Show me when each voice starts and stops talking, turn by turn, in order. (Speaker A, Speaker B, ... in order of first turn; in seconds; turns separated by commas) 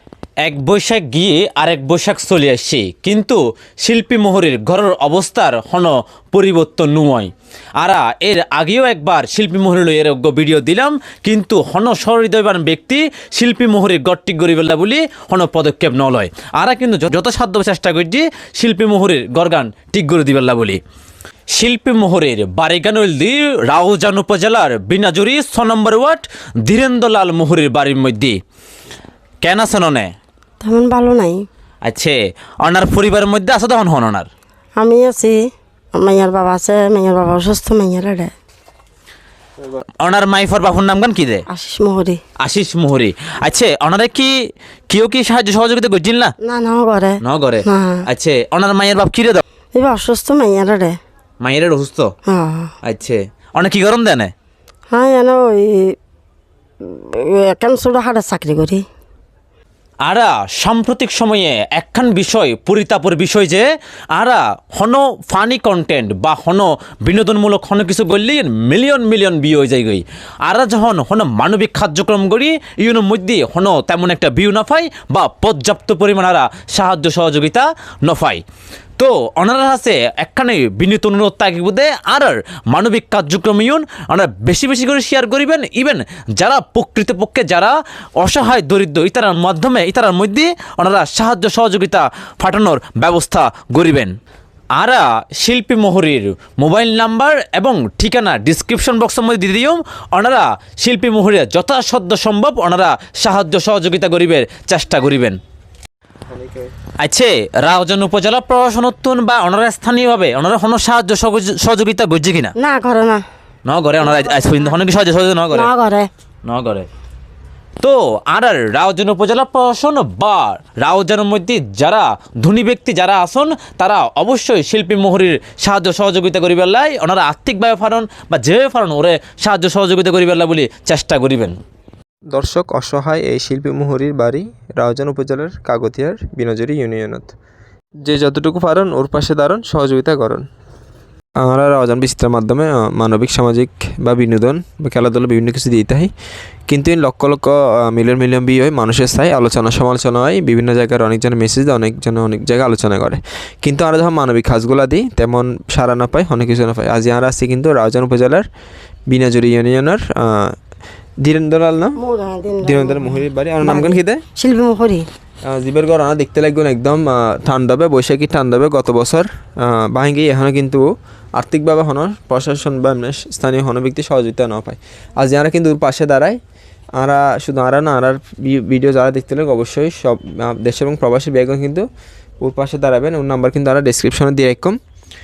Speaker A: 0.4-20.8, Speaker A: 21.5-28.4, Speaker A: 29.4-30.1, Speaker B: 30.6-31.5, Speaker A: 31.8-34.3, Speaker B: 34.8-38.3, Speaker A: 40.0-41.4, Speaker B: 41.5-42.2, Speaker A: 42.4-44.3, Speaker A: 44.9-46.3, Speaker B: 46.4-48.0, Speaker A: 47.2-49.4, Speaker B: 49.8-51.0, Speaker A: 51.4-52.1, Speaker B: 52.3-52.7, Speaker A: 52.8-54.3, Speaker B: 54.9-56.0, Speaker B: 56.8-58.9, Speaker A: 60.0-78.4, Speaker A: 79.0-94.2, Speaker A: 94.8-105.4, Speaker C: 106.3-106.6, Speaker A: 107.0-112.5, Speaker B: 112.6-113.2, Speaker A: 113.7-115.7, Speaker B: 114.2-114.5, Speaker B: 115.5-116.1, Speaker A: 116.5-116.9, Speaker A: 117.8-131.6, Speaker C: 132.3-137.3, Speaker C: 138.0-140.5, Speaker C: 141.4-146.1, Speaker C: 146.7-158.5, Speaker C: 159.1-160.6, Speaker C: 161.2-162.0, Speaker B: 162.0-165.1, Speaker C: 162.6-164.2, Speaker C: 165.5-176.4, Speaker C: 177.0-181.9, Speaker C: 182.4-184.8